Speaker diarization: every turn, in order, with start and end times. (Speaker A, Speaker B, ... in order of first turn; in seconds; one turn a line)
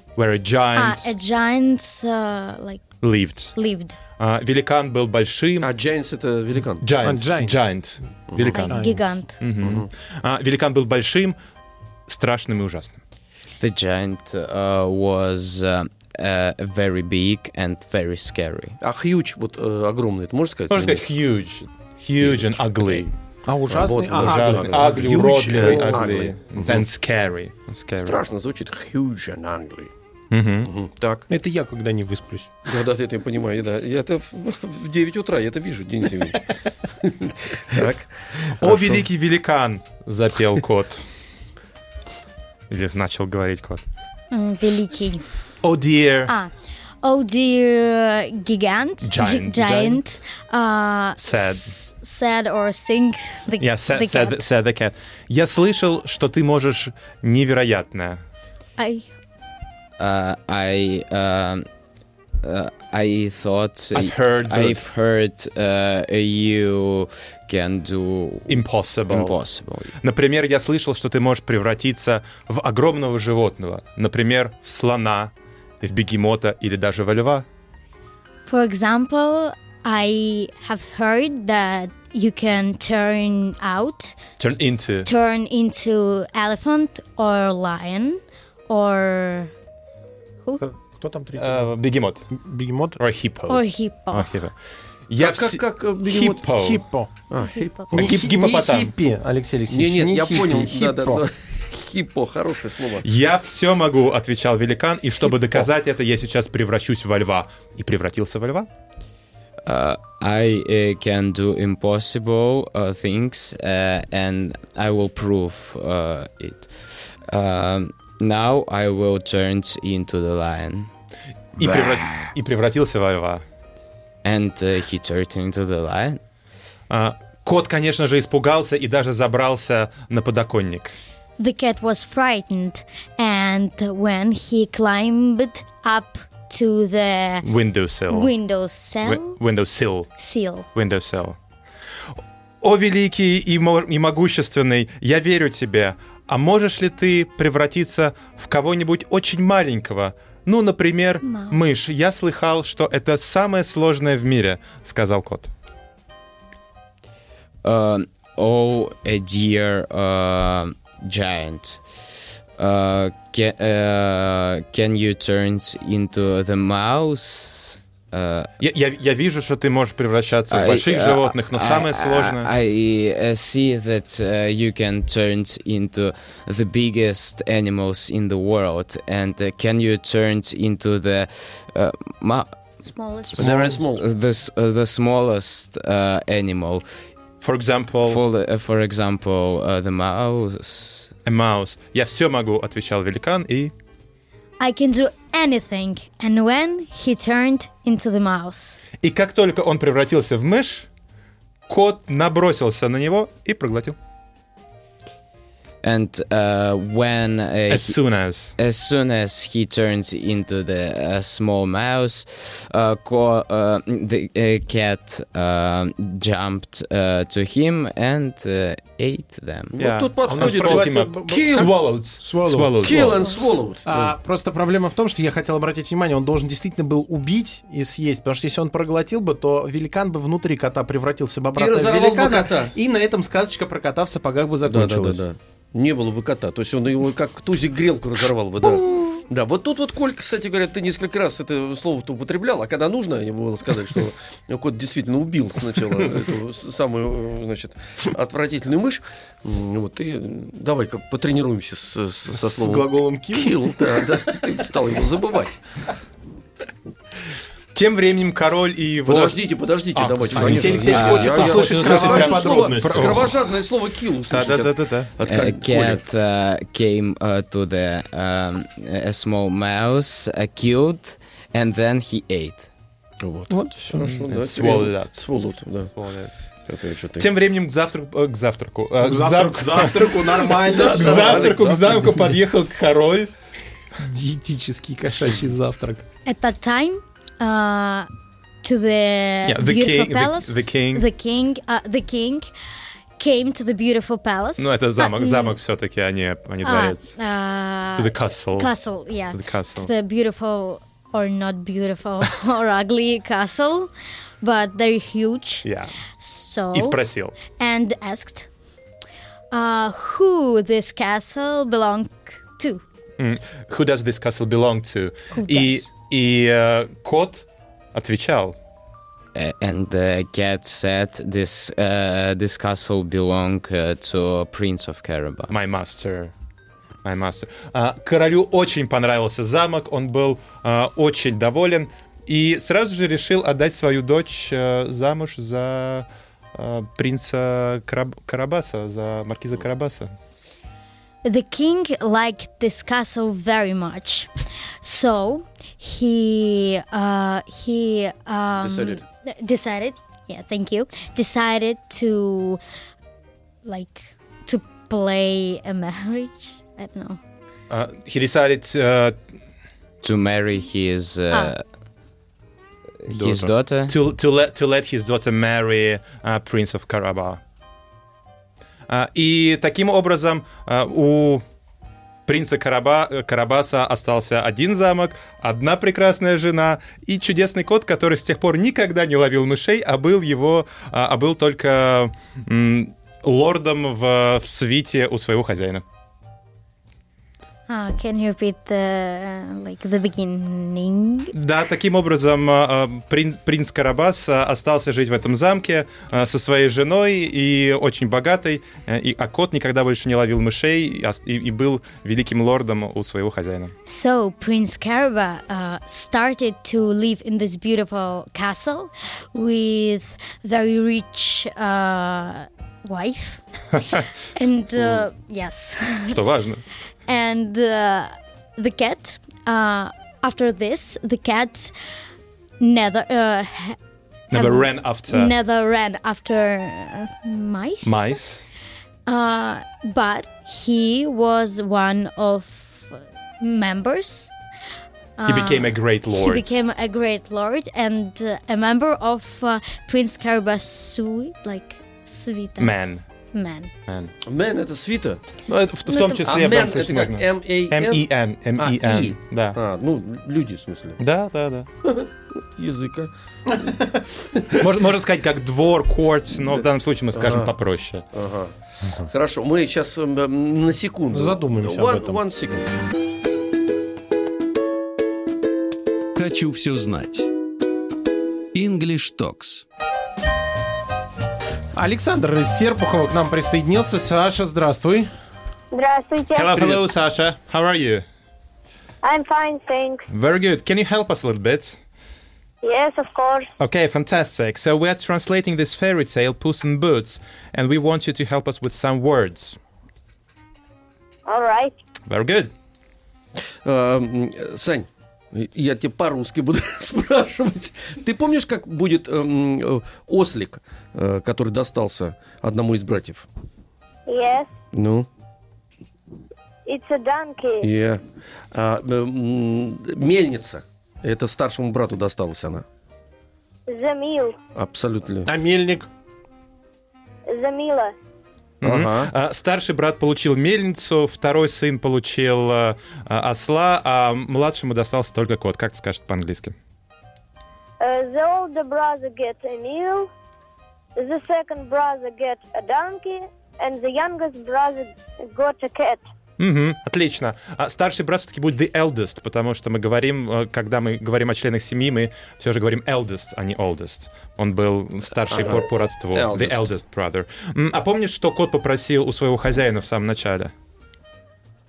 Speaker A: 0.2-1.1
Speaker B: 0.8-2.9
Speaker A: 3.0-3.5
Speaker B: 3.6-4.0
Speaker A: 4.2-5.7
Speaker C: 5.6-6.9
Speaker A: 6.8-8.8
Speaker D: 7.0-7.6
Speaker C: 8.3-8.6
Speaker B: 8.5-9.4
Speaker D: 8.6-9.0
Speaker A: 9.4-11.4
Speaker C: 9.6-9.9
Speaker A: 12.1-13.0
Speaker E: 13.6-18.8
Speaker C: 18.8-21.0
Speaker A: 20.7-23.1
Speaker C: 22.2-23.1
Speaker D: 23.5-26.3
Speaker C: 23.7-26.9
Speaker A: 24.2-28.2
Speaker C: 28.0-29.9
Speaker A: 30.3-30.7
Speaker C: 30.6-31.3
Speaker D: 31.3-32.5
Speaker C: 32.7-39.1
Speaker A: 38.6-41.0
Speaker A: 42.7-43.8
Speaker B: 44.3-45.2
Speaker A: 45.6-46.3
Speaker B: 47.0-54.4
Speaker A: 49.0-50.0
Speaker A: 51.2-51.7
Speaker A: 53.6-58.2
Speaker B: 58.8-59.1
Speaker E: 60.0-61.7
Speaker E: 62.4-69.9
Speaker A: 63.9-64.8
Speaker A: 68.5-69.4
Speaker A: 70.0-77.5
Speaker B: 78.5-84.2
Speaker A: 84.4-85.1
Speaker B: 85.0-89.5
Speaker D: 90.6-91.7
Speaker A: 91.4-92.2
Speaker D: 92.3-93.0
Speaker A: 93.0-94.5
Speaker B: 93.5-94.3
Speaker A: 95.1-96.8
Speaker C: 95.2-96.5
Speaker D: 96.5-97.1
Speaker C: 97.3-98.1
Speaker B: 97.4-97.9
Speaker D: 97.9-101.3
Speaker A: 98.0-98.9
Speaker C: 99.7-103.1
Speaker A: 103.0-108.7
Speaker E: 109.7-116.7
Speaker E: 117.3-120.9
Speaker A: 121.6-123.4
Speaker E: 121.6-122.3
Speaker E: 124.2-126.2
Speaker A: 126.9-131.0
Speaker B: 131.4-137.5
Speaker A: 137.4-138.3
Speaker B: 138.1-139.4
Speaker A: 139.0-140.1
Speaker B: 140.2-140.7
Speaker A: 140.7-141.4
Speaker A: 142.6-155.5
Speaker B: 151.2-151.6
Speaker E: 157.6-161.8
Speaker E: 162.6-168.5
Speaker A: 168.6-172.5
Speaker E: 170.5-182.6
Speaker B: 182.8-183.5
Speaker C: 183.4-184.0
Speaker E: 183.4-186.8
Speaker A: 187.4-188.2
Speaker E: 188.1-191.1
Speaker A: 191.2-193.7
Speaker B: 194.6-198.8
Speaker A: 199.0-200.9
Speaker A: 201.7-204.0
Speaker E: 205.8-208.0
Speaker A: 207.7-208.6
Speaker E: 208.6-219.7
Speaker C: 219.7-221.8
Speaker A: 219.8-223.3
Speaker D: 220.3-223.2
Speaker C: 222.8-224.1
Speaker D: 223.9-235.2
Speaker C: 231.6-232.7
Speaker C: 234.7-255.6
Speaker D: 252.3-254.1
Speaker A: 257.7-259.4
Speaker C: 259.0-266.0
Speaker A: 259.9-263.5
Speaker D: 260.3-263.2
Speaker E: 260.9-261.3
Speaker A: 264.3-265.1
Speaker E: 265.2-272.7
Speaker C: 273.2-275.9
Speaker D: 273.5-274.0
Speaker A: 274.0-275.2
Speaker A: 275.9-276.3
Speaker C: 276.7-277.3
Speaker A: 277.2-283.3
Speaker D: 279.0-282.3
Speaker C: 280.7-282.1
Speaker D: 284.0-286.0
Speaker B: 286.2-288.1
Speaker B: 288.6-292.5
Speaker A: 289.4-291.1
Speaker B: 293.2-295.6
Speaker A: 294.6-297.2
Speaker B: 296.6-303.9
Speaker A: 298.0-298.7
Speaker A: 299.3-299.9
Speaker B: 304.4-307.0
Speaker A: 305.6-306.0
Speaker A: 306.7-307.4
Speaker B: 307.5-308.5
Speaker B: 309.5-312.8
Speaker A: 313.2-318.6
Speaker B: 315.3-315.9
Speaker E: 319.4-325.5
Speaker A: 325.5-326.3
Speaker A: 327.0-340.1
Speaker B: 341.2-344.3
Speaker B: 344.8-352.6
Speaker C: 348.6-349.0
Speaker B: 353.6-357.2
Speaker A: 357.7-359.2
Speaker E: 360.0-361.6
Speaker E: 363.0-363.9
Speaker D: 363.1-363.5
Speaker A: 363.9-367.4
Speaker A: 368.9-371.4
Speaker A: 372.3-385.8
Speaker B: 387.7-391.3
Speaker A: 391.3-403.7
Speaker B: 403.9-413.4
Speaker B: 414.3-416.2
Speaker A: 416.0-416.6
Speaker B: 417.1-421.7
Speaker B: 422.6-423.8
Speaker A: 424.3-425.3
Speaker B: 424.3-428.2
Speaker A: 427.8-428.4
Speaker B: 429.1-434.3
Speaker B: 435.2-442.8
Speaker A: 435.3-436.6
Speaker A: 442.6-443.0
Speaker B: 443.3-443.7
Speaker A: 443.9-444.1
Speaker C: 444.2-445.4
Speaker A: 445.5-449.6
Speaker B: 445.9-446.2
Speaker C: 446.2-451.0
Speaker A: 451.0-451.7
Speaker C: 451.8-454.5
Speaker A: 454.6-458.1
Speaker C: 457.1-457.5
Speaker C: 458.1-462.7
Speaker D: 461.1-462.2
Speaker F: 466.1-467.3
Speaker F: 468.5-469.6
Speaker D: 471.8-475.1
Speaker G: 475.7-476.8
Speaker A: 476.4-478.1
Speaker G: 479.0-480.1
Speaker A: 480.1-481.8
Speaker G: 482.6-483.5
Speaker A: 483.6-489.6
Speaker G: 491.3-491.7
Speaker A: 492.1-492.5
Speaker C: 493.6-503.3
Speaker G: 504.1-504.5
Speaker C: 504.7-505.1
Speaker G: 506.7-507.7
Speaker C: 507.6-512.6
Speaker G: 513.7-514.4
Speaker C: 514.5-515.3
Speaker D: 515.3-515.9
Speaker G: 517.3-517.9
Speaker A: 518.6-526.5
Speaker C: 518.6-519.1
Speaker G: 527.8-530.1
Speaker G: 531.0-536.0
Speaker A: 536.4-550.5
Speaker C: 545.3-546.7